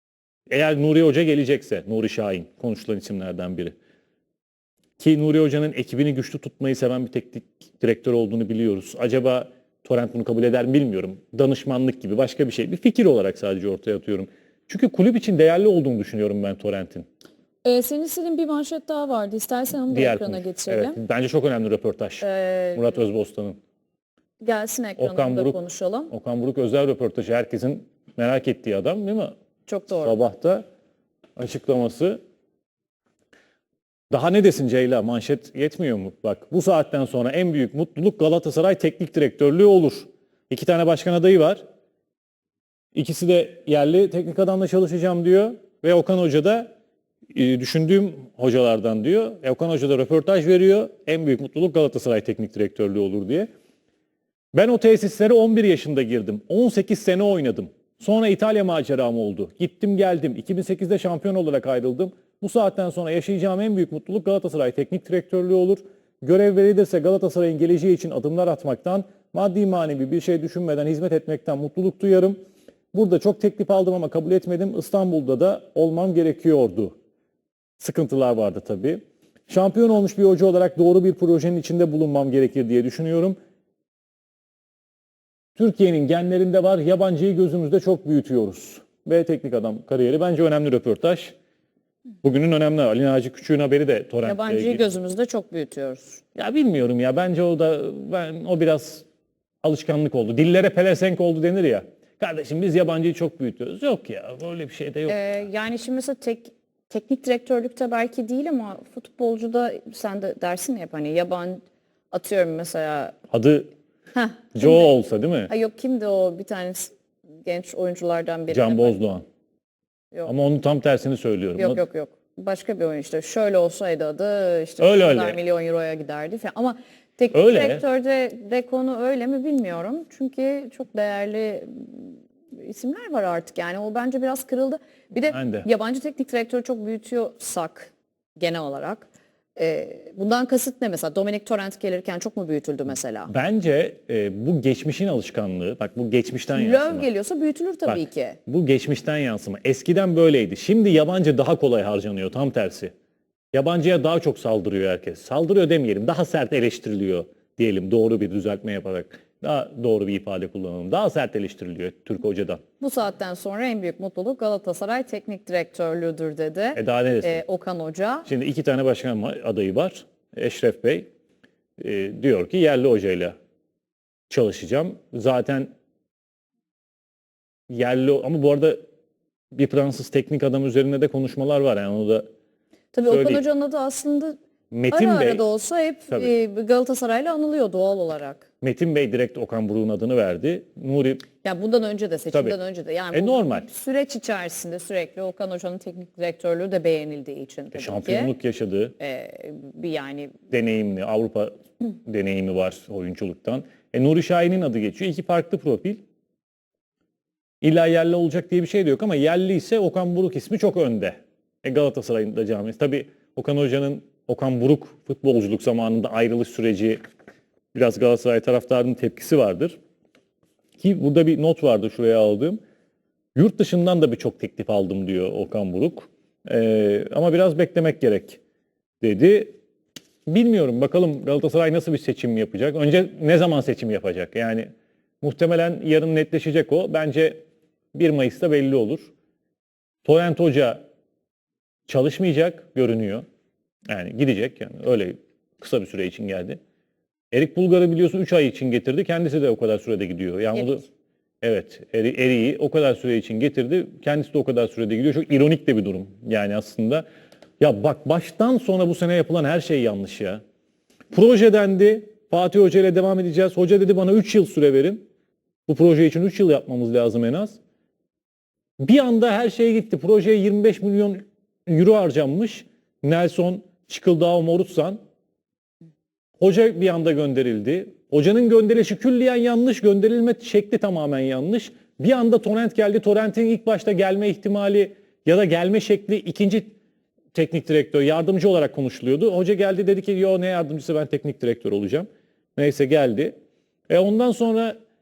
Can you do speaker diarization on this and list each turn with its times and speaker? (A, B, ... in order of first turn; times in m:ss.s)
0:00.5-0:03.7 A
0:05.0-0:17.1 A
0:17.6-0:21.0 B
0:19.9-0:23.6 A
0:22.2-0:23.0 B
0:24.4-0:26.1 B
0:25.0-0:29.3 A
0:29.7-0:30.2 B
0:30.0-0:30.6 A
0:31.4-0:32.2 A
0:34.1-0:41.6 A
0:43.0-0:46.7 A
0:47.3-0:53.5 A
0:54.5-1:12.4 A
1:12.9-1:17.0 A
1:17.8-1:23.4 A
1:25.6-1:31.3 A
1:32.2-1:34.8 A
1:34.2-1:36.2 B
1:36.4-1:39.0 A
1:39.6-1:45.2 A
1:45.1-1:53.2 B
1:53.3-1:53.7 A
1:54.2-1:54.9 B
1:54.5-1:55.5 A
1:55.5-1:56.9 B
1:57.5-1:59.0 B
1:58.5-1:59.2 A
2:00.3-2:01.8 A
2:01.6-2:23.3 B
2:04.8-2:05.4 A
2:07.3-2:07.8 A
2:15.3-2:15.7 A
2:23.3-2:27.1 A
2:26.5-2:28.4 B
2:27.9-2:32.9 A
2:33.5-2:42.6 A
2:42.8-2:48.3 B
2:46.8-2:47.4 A
2:48.3-2:51.1 A
2:51.8-2:53.4 A
2:54.3-2:55.7 A
2:57.7-2:58.8 A
2:59.5-3:02.3 A
3:02.9-3:04.4 B
3:03.0-3:03.4 A
3:04.7-3:05.4 A
3:04.9-3:08.4 B
3:08.6-3:11.2 A
3:11.4-3:18.4 B
3:12.3-3:12.6 A
3:13.1-3:13.7 A
3:17.7-3:18.9 A
3:19.0-3:20.4 B
3:20.5-3:26.0 A
3:27.6-3:37.0 A
3:37.7-3:39.8 A
3:40.8-3:42.6 A
3:43.4-3:48.4 A
3:49.0-3:49.6 A
3:50.3-3:54.7 A
3:55.2-3:57.4 A
3:57.9-3:59.1 A
4:00.0-4:00.8 A
4:01.9-4:03.2 A
4:03.9-4:06.6 A
4:07.3-4:10.9 A
4:11.4-4:17.0 A
4:17.6-4:20.4 A
4:21.1-4:25.0 A
4:25.7-4:27.6 A
4:28.8-4:35.0 A
4:36.4-4:46.7 A
4:47.3-4:53.3 A
4:53.9-4:54.8 A